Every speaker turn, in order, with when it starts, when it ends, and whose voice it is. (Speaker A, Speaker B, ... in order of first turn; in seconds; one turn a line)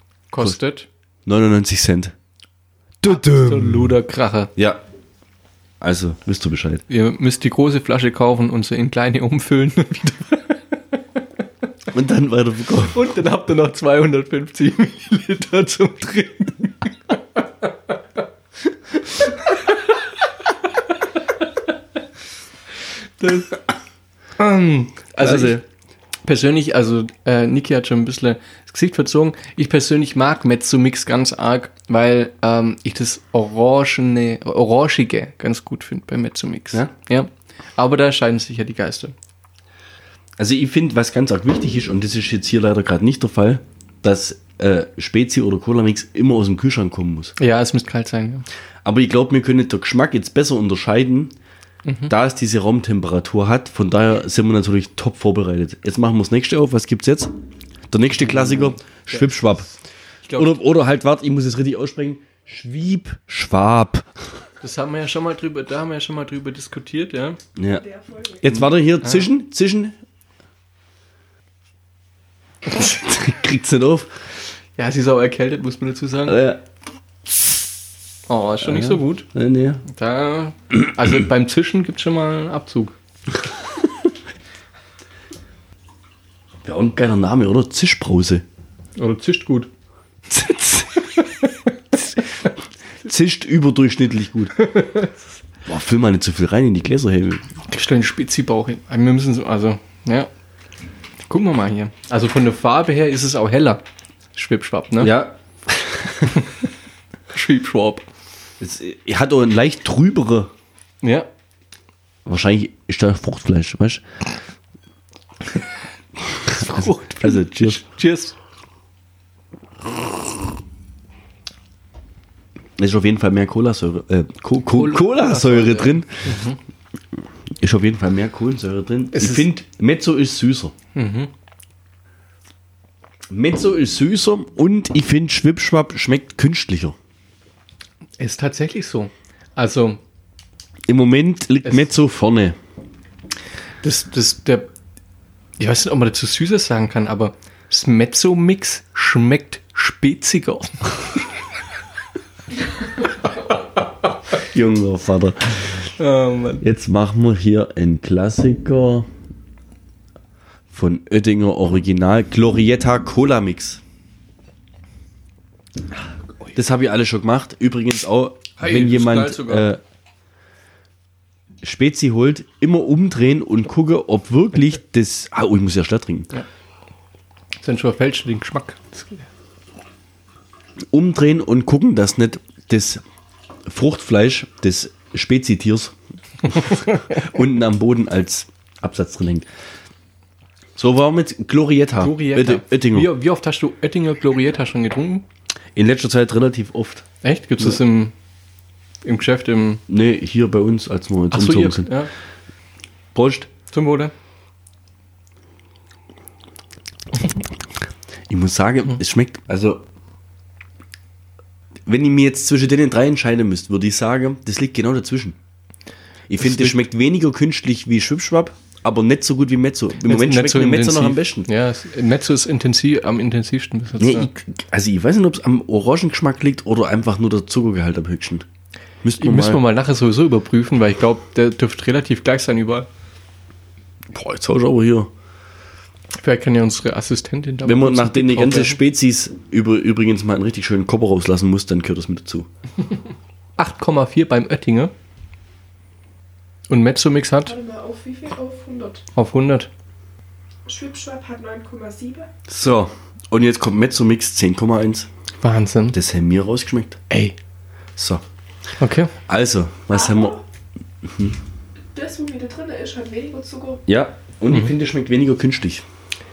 Speaker A: 0.3-0.9
Speaker B: 1.2-2.1
Speaker B: 3.0-3.9
Speaker A: 3.0-4.5
Speaker B: 4.5-4.8
Speaker B: 5.8-6.8
Speaker A: 6.9-10.6
Speaker B: 11.9-13.0
Speaker A: 12.9-17.7
Speaker A: 19.0-20.0
Speaker A: 23.2-23.6
Speaker A: 24.4-25.6
Speaker B: 25.2-25.6
Speaker A: 26.2-39.1
Speaker B: 40.4-47.3
Speaker A: 47.4-48.5
Speaker B: 48.8-51.3
Speaker A: 51.8-52.1
Speaker B: 52.1-57.3
Speaker B: 57.9-59.7
Speaker A: 60.3-60.5
Speaker B: 60.3-64.1
Speaker A: 64.6-67.4
Speaker B: 67.6-67.8
Speaker C: 67.8-68.4
Speaker B: 68.4-69.9
Speaker A: 69.0-69.3
Speaker B: 72.7-74.1
Speaker A: 74.8-76.4
Speaker B: 76.3-76.6
Speaker A: 78.3-79.3
Speaker B: 78.6-79.8
Speaker A: 79.8-82.9
Speaker B: 86.6-88.4
Speaker A: 89.0-89.7
Speaker B: 90.3-91.2
Speaker B: 93.0-94.7
Speaker A: 94.6-95.1
Speaker B: 95.7-97.5
Speaker A: 97.7-100.3
Speaker A: 101.3-103.8
Speaker A: 104.3-105.1
Speaker B: 105.0-106.3
Speaker A: 107.3-108.0
Speaker B: 108.6-110.5
Speaker A: 111.0-111.3
Speaker B: 112.2-114.0
Speaker B: 116.3-117.8
Speaker A: 116.5-118.3
Speaker B: 122.8-126.4
Speaker A: 124.7-126.6
Speaker B: 127.6-130.7
Speaker A: 129.1-129.5
Speaker A: 130.9-131.3
Speaker B: 133.3-136.9
Speaker A: 138.2-140.0
Speaker B: 140.9-142.6
Speaker A: 143.8-144.7
Speaker A: 145.6-151.2
Speaker B: 154.4-155.9
Speaker A: 156.0-156.6
Speaker B: 156.6-159.1
Speaker B: 160.7-163.8
Speaker B: 166.5-169.8
Speaker A: 168.6-169.7
Speaker B: 171.6-176.3
Speaker A: 177.6-179.3
Speaker B: 180.9-183.0
Speaker B: 183.7-189.5
Speaker B: 190.8-193.1
Speaker A: 192.0-195.2
Speaker B: 195.7-197.1
Speaker A: 197.2-198.1
Speaker A: 199.0-199.8
Speaker B: 199.9-201.9
Speaker A: 201.3-202.1
Speaker B: 203.1-203.5
Speaker A: 203.7-204.1
Speaker B: 208.3-209.8
Speaker B: 211.9-215.3
Speaker B: 216.3-221.5
Speaker A: 216.4-216.8
Speaker A: 220.0-224.3
Speaker B: 224.0-228.4
Speaker B: 229.0-229.6
Speaker A: 229.2-232.9
Speaker B: 234.1-235.1
Speaker A: 236.1-238.8
Speaker B: 237.6-242.5
Speaker A: 243.6-244.9
Speaker A: 246.7-247.6
Speaker C: 247.4-249.1
Speaker A: 249.1-249.7
Speaker C: 250.7-252.3
Speaker B: 252.5-255.1
Speaker A: 255.4-256.0
Speaker B: 255.9-257.0
Speaker A: 257.1-257.3
Speaker B: 258.0-258.2
Speaker A: 258.8-259.1
Speaker B: 259.3-260.4
Speaker C: 259.9-260.4
Speaker B: 261.0-261.4
Speaker C: 261.9-263.8
Speaker B: 263.9-265.8